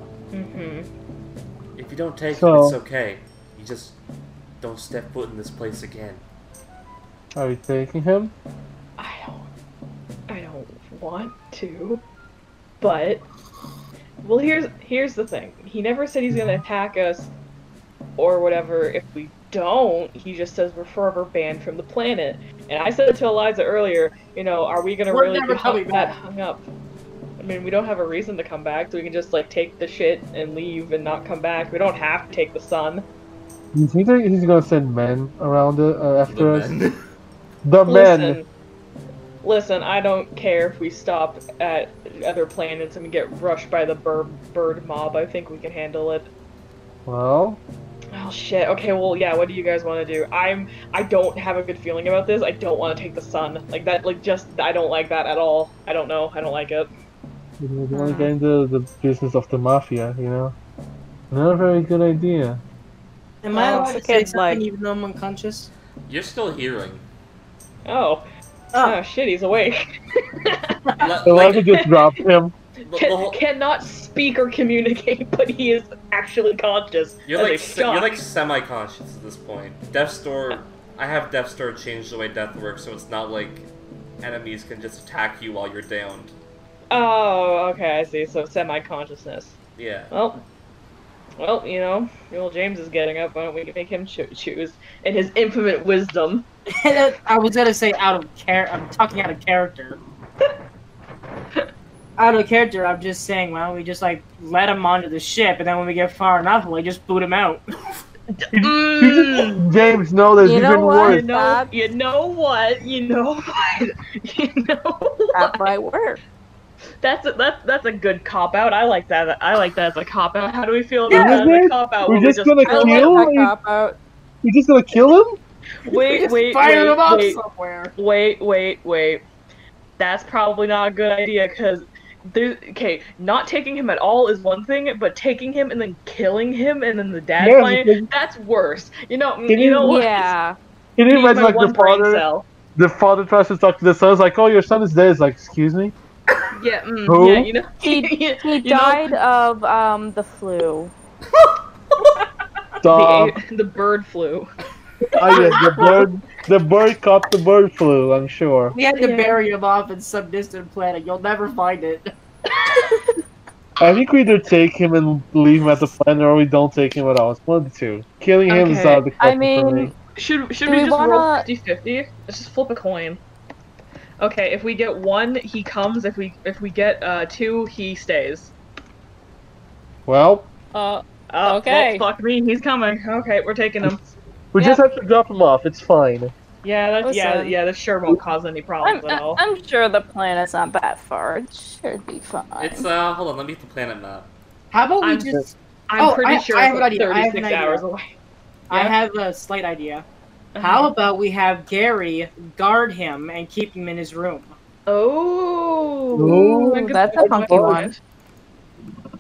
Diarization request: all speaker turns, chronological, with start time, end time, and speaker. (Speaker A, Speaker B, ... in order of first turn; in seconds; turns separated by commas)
Speaker A: 0.3-0.9, Speaker B: 1.8-4.0, Speaker C: 2.3-2.8, Speaker B: 4.6-6.2, Speaker C: 7.3-8.3, Speaker A: 9.0-9.5, Speaker A: 10.3-12.0, Speaker A: 12.8-13.2, Speaker A: 14.2-17.3, Speaker A: 18.2-26.6, Speaker D: 25.1-26.1, Speaker A: 27.4-33.1, Speaker C: 33.7-36.7, Speaker B: 36.3-37.0, Speaker C: 37.6-38.4, Speaker A: 37.9-38.5, Speaker A: 39.4-46.3, Speaker C: 47.1-47.6, Speaker A: 48.1-56.9, Speaker C: 57.6-60.5, Speaker E: 57.9-58.3, Speaker C: 61.3-62.6, Speaker D: 63.4-65.7, Speaker E: 63.5-64.6, Speaker B: 66.1-67.0, Speaker A: 67.8-68.2, Speaker A: 68.8-70.8, Speaker B: 71.0-71.8, Speaker C: 71.3-72.5, Speaker A: 71.7-72.1, Speaker B: 72.8-73.4, Speaker A: 72.9-78.2, Speaker B: 77.3-83.7, Speaker B: 84.2-86.3, Speaker A: 86.9-89.6, Speaker B: 89.8-90.1, Speaker A: 90.1-90.4, Speaker A: 91.4-96.5, Speaker D: 96.8-100.0, Speaker D: 102.2-107.6, Speaker A: 108.4-109.6, Speaker C: 108.5-111.2, Speaker E: 110.4-111.7, Speaker A: 111.0-115.7, Speaker E: 115.3-116.2, Speaker A: 117.0-123.2, Speaker C: 121.1-123.5, Speaker E: 121.1-121.4, Speaker E: 122.6-124.0, Speaker C: 124.4-125.4, Speaker A: 125.8-127.4, Speaker D: 125.9-127.9, Speaker A: 128.0-129.2, Speaker A: 130.0-140.3, Speaker C: 137.4-138.1, Speaker C: 139.5-140.0, Speaker E: 139.8-140.6, Speaker C: 141.0-142.2, Speaker A: 141.1-142.4, Speaker C: 142.8-145.9, Speaker A: 146.5-149.2, Speaker C: 147.1-147.5, Speaker E: 147.8-150.9, Speaker A: 152.0-152.3, Speaker C: 152.8-153.4, Speaker A: 152.8-154.5, Speaker A: 155.1-156.1, Speaker C: 155.2-158.8, Speaker D: 158.7-162.1, Speaker A: 159.0-159.4, Speaker A: 162.5-163.1, Speaker C: 163.8-169.9, Speaker A: 168.5-169.1, Speaker E: 169.2-169.9, Speaker A: 170.2-173.2, Speaker E: 170.7-171.5, Speaker A: 174.2-178.5, Speaker C: 180.1-180.5, Speaker E: 180.7-182.1, Speaker A: 181.3-184.8, Speaker C: 184.5-186.3, Speaker A: 186.6-189.4, Speaker E: 187.0-187.6, Speaker E: 188.8-192.8, Speaker B: 192.6-194.3, Speaker D: 194.7-197.8, Speaker A: 195.0-195.3, Speaker A: 195.9-198.0, Speaker A: 198.7-199.0, Speaker D: 198.7-200.1, Speaker A: 200.6-200.9, Speaker D: 200.6-204.6, Speaker A: 204.9-208.0, Speaker C: 206.2-207.9, Speaker E: 206.2-207.9